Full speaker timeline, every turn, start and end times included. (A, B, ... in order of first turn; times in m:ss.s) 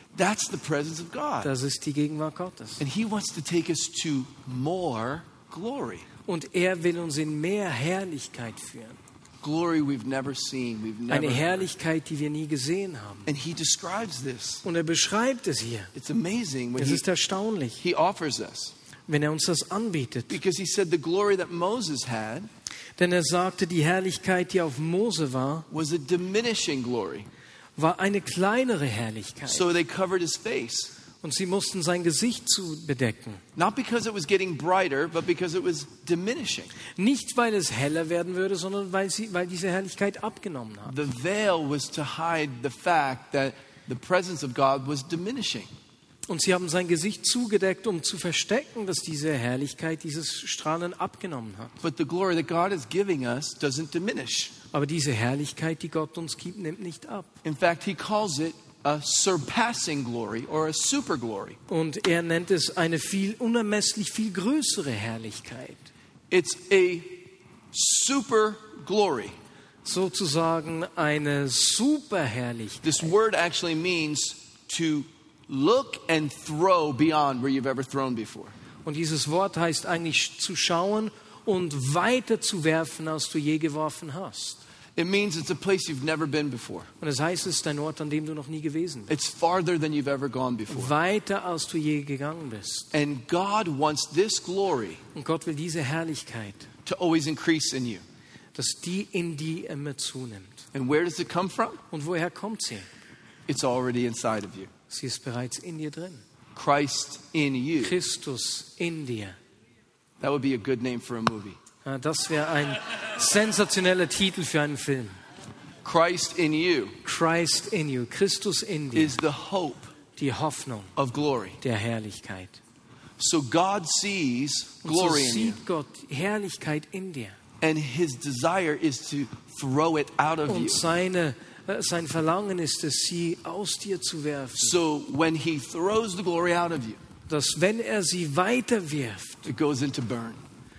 0:00.1-0:01.5 A
0:01.4-0:02.8 B
0:02.8-0:06.0 A
0:06.2-0:09.0 B
0:09.4-0:11.6 A
0:11.1-0:13.3 B
0:13.3-0:14.6 A
0:14.6-0:15.9 B
0:15.9-0:17.0 A
0:16.8-0:17.8 B
0:17.8-0:18.7 A
0:19.1-0:20.4 B
0:20.3-0:22.5 A
0:23.0-0:25.7 B
0:25.7-0:27.3 A
0:27.8-0:29.6 B
0:29.5-0:30.9 A
0:31.2-0:33.4 B
0:33.6-0:36.7 A
0:37.0-0:40.9 B
0:40.9-0:45.7 A
0:46.3-0:51.8 B
0:51.8-0:54.5 A
0:54.7-0:57.3 B
0:57.4-1:01.6 A
1:01.7-1:05.9 B
1:06.3-1:09.3 A
1:09.8-1:13.1 B
1:12.8-1:18.5 A
1:18.8-1:24.6 B
1:25.0-1:26.9 A
1:27.0-1:29.1 B
1:29.1-1:30.9 A
1:30.7-1:32.9 B
1:32.9-1:35.0 A
1:35.1-1:36.7 B
1:36.8-1:38.0 A
1:38.5-1:40.6 B
1:40.7-1:41.8 A
1:41.9-1:42.9 B
1:43.5-1:44.7 A
1:44.9-1:46.2 B
1:46.5-1:48.0 A
1:47.8-1:49.4 B
1:50.2-1:51.6 A
1:51.8-1:55.2 B
1:55.8-1:57.0 A
1:57.0-1:59.2 B
1:58.9-1:59.9 A
2:00.2-2:00.9 B
2:01.0-2:01.6 A
2:01.6-2:02.6 B
2:03.2-2:05.6 A
2:04.8-2:07.4 B
2:07.6-2:10.8 A
2:10.5-2:14.8 B
2:14.6-2:17.0 A
2:17.3-2:19.4 B
2:19.4-2:20.4 A